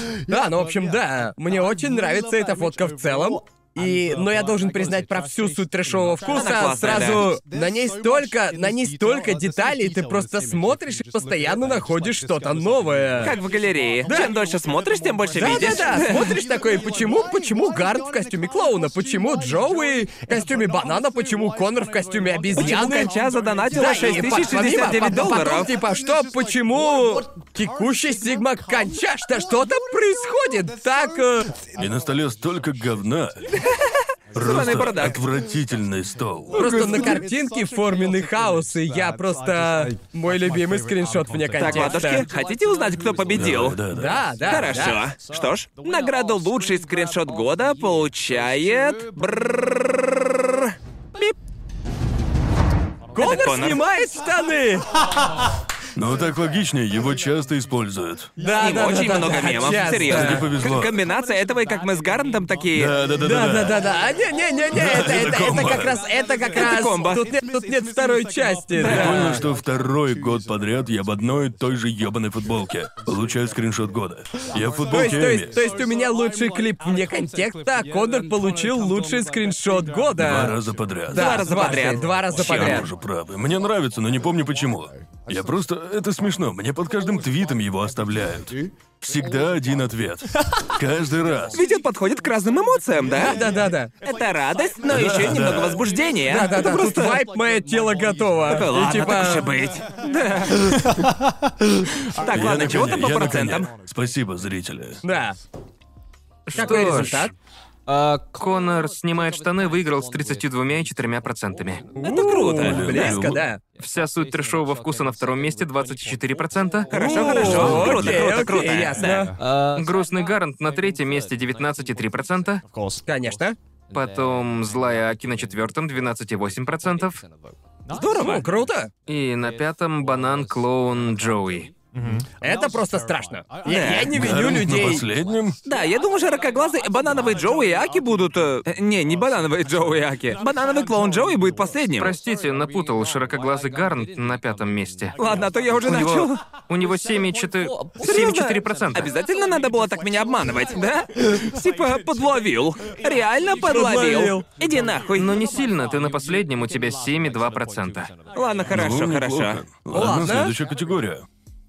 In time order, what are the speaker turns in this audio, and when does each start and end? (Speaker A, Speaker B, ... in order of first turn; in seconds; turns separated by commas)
Speaker A: 0.3-13.4, Speaker B: 6.3-7.3, Speaker B: 13.2-16.4, Speaker A: 14.1-14.3, Speaker A: 15.3-23.1, Speaker B: 22.6-25.7, Speaker A: 23.7-31.5, Speaker C: 31.8-33.5, Speaker B: 33.7-35.1, Speaker C: 34.3-36.8, Speaker A: 36.5-42.2, Speaker B: 36.5-37.2, Speaker B: 41.5-43.8, Speaker C: 43.3-44.2, Speaker A: 43.9-45.0, Speaker B: 44.5-51.3, Speaker A: 53.1-54.9, Speaker B: 53.1-53.8, Speaker C: 55.9-58.3, Speaker A: 58.4-60.4, Speaker B: 58.5-63.0, Speaker C: 59.9-60.9, Speaker C: 62.7-63.9, Speaker A: 63.2-69.4, Speaker C: 64.7-66.0, Speaker B: 66.5-67.3, Speaker B: 68.8-69.4, Speaker C: 68.8-75.7, Speaker A: 74.9-82.9, Speaker C: 80.2-81.4, Speaker B: 81.1-82.8, Speaker C: 82.3-91.6, Speaker B: 91.5-93.4, Speaker A: 93.1-93.9, Speaker B: 94.0-97.3, Speaker C: 94.8-95.8, Speaker A: 96.3-99.5, Speaker B: 98.5-101.0, Speaker B: 102.1-103.7, Speaker C: 102.3-105.0, Speaker A: 105.0-105.4, Speaker D: 106.5-107.3, Speaker A: 106.5-107.3, Speaker D: 107.9-111.8, Speaker A: 112.0-113.6, Speaker B: 112.0-113.0, Speaker C: 112.6-113.4, Speaker D: 113.8-116.9, Speaker B: 116.9-119.3, Speaker A: 116.9-119.3, Speaker C: 117.4-118.3, Speaker D: 119.4-122.6, Speaker A: 123.0-123.6, Speaker D: 123.9-127.2, Speaker B: 127.9-128.4, Speaker A: 128.2-128.9, Speaker D: 129.1-131.7, Speaker A: 132.4-135.0, Speaker B: 133.6-134.1, Speaker C: 134.1-135.6, Speaker B: 135.7-142.2, Speaker D: 142.0-145.2, Speaker B: 145.2-146.4, Speaker D: 145.8-149.1, Speaker B: 148.0-155.4, Speaker A: 153.6-154.4, Speaker D: 155.2-158.1, Speaker B: 158.3-159.6, Speaker C: 158.7-161.2, Speaker A: 159.9-160.6